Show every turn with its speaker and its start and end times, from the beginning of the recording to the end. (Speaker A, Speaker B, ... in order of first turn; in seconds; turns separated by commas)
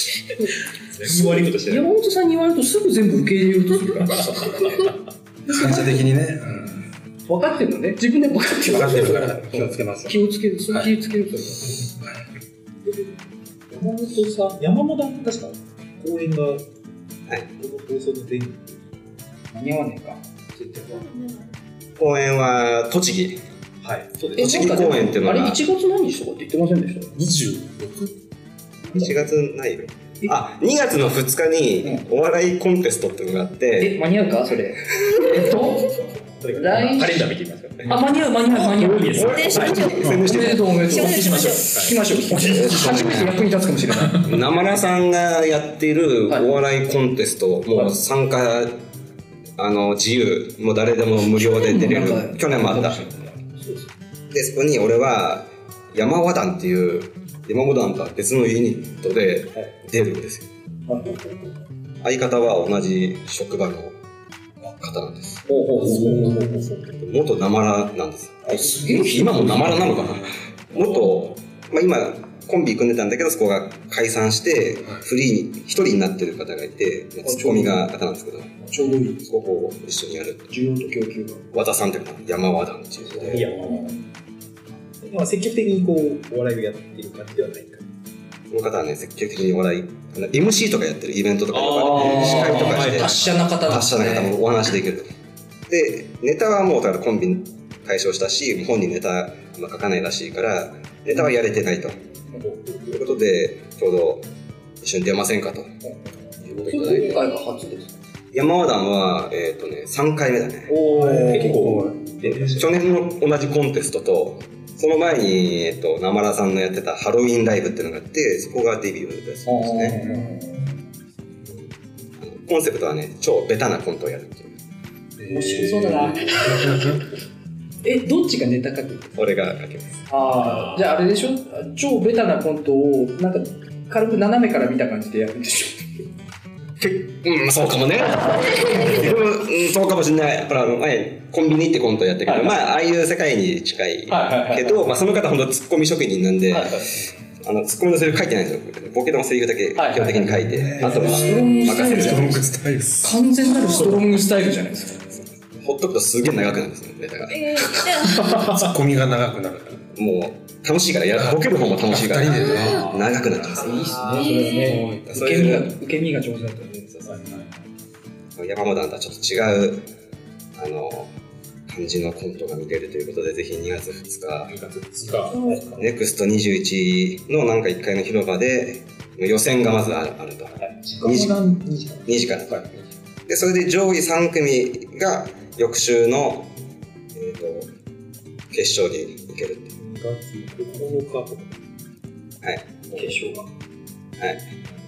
Speaker A: 0.4-4.9, Speaker B: 0.7-1.9, Speaker B: 4.0-4.9, Speaker A: 5.5-6.0, Speaker C: 5.5-6.8, Speaker A: 7.3-11.8, Speaker C: 8.7-10.2, Speaker B: 13.7-16.7, Speaker B: 17.5-18.9, Speaker A: 19.5-21.0, Speaker D: 20.9-21.5, Speaker E: 22.0-23.4, Speaker B: 23.8-24.7, Speaker E: 24.3-25.6, Speaker A: 24.4-27.1, Speaker C: 27.1-28.1, Speaker E: 28.9-34.0, Speaker A: 33.8-36.0, Speaker B: 36.4-39.9, Speaker A: 36.5-37.2, Speaker A: 37.9-44.3, Speaker E: 39.1-40.8, Speaker D: 39.1-41.7, Speaker B: 41.5-42.0, Speaker E: 42.4-43.4, Speaker E: 44.2-48.8, Speaker E: 49.6-53.0, Speaker A: 51.4-53.9, Speaker E: 54.3-60.5, Speaker A: 60.9-61.5, Speaker E: 62.0-64.0, Speaker E: 64.6-65.4, Speaker B: 65.5-66.7, Speaker A: 65.6-66.6, Speaker C: 65.9-66.4, Speaker E: 67.0-78.5, Speaker A: 68.5-69.7, Speaker C: 69.5-70.3, Speaker B: 70.8-71.1, Speaker A: 77.2-77.9, Speaker A: 78.6-79.2, Speaker E: 79.2-80.5, Speaker A: 80.5-81.4, Speaker E: 81.5-83.5, Speaker B: 83.2-83.9, Speaker C: 83.5-83.7, Speaker A: 83.6-84.0, Speaker B: 85.0-87.9, Speaker E: 88.5-95.1, Speaker B: 91.5-93.4, Speaker A: 91.7-94.3, Speaker E: 95.7-102.0, Speaker B: 102.4-102.8, Speaker E: 102.9-104.2, Speaker E: 104.8-105.7, Speaker E: 106.4-107.2, Speaker A: 106.5-108.0, Speaker E: 108.3-110.8, Speaker B: 110.7-112.8, Speaker C: 110.9-112.6, Speaker E: 112.5-120.0, Speaker A: 119.4-120.7, Speaker C: 119.9-120.5, Speaker E: 121.5-124.5, Speaker C: 125.2-127.0, Speaker A: 125.3-127.0, Speaker A: 127.8-129.1, Speaker E: 129.2-130.0, Speaker A: 130.1-135.9, Speaker B: 130.4-130.7, Speaker E: 136.8-146.8, Speaker A: 138.2-139.1, Speaker A: 142.2-142.6, Speaker A: 144.1-144.8, Speaker A: 146.5-146.9, Speaker E: 147.4-152.4, Speaker A: 149.7-152.4, Speaker C: 150.0-153.2, Speaker A: 153.0-155.1, Speaker D: 153.5-153.9, Speaker E: 155.5-157.9, Speaker D: 157.3-158.5, Speaker B: 158.1-158.7, Speaker C: 158.4-159.9, Speaker E: 159.9-164.1, Speaker C: 161.1-162.9, Speaker D: 162.3-162.8, Speaker B: 162.5-164.4, Speaker A: 163.5-166.9, Speaker D: 164.1-164.8, Speaker C: 164.6-165.0, Speaker E: 165.0-165.7, Speaker E: 166.9-167.2, Speaker B: 167.0-167.6, Speaker E: 168.3-169.8, Speaker E: 170.6-171.1, Speaker E: 171.7-174.5, Speaker B: 174.5-175.9, Speaker E: 175.8-181.4, Speaker B: 180.6-182.8, Speaker E: 182.1-182.6, Speaker E: 183.3-186.5, Speaker E: 187.1-187.7, Speaker E: 188.5-189.7, Speaker B: 189.8-191.6, Speaker E: 192.4-193.1, Speaker A: 192.9-193.4, Speaker E: 194.2-194.5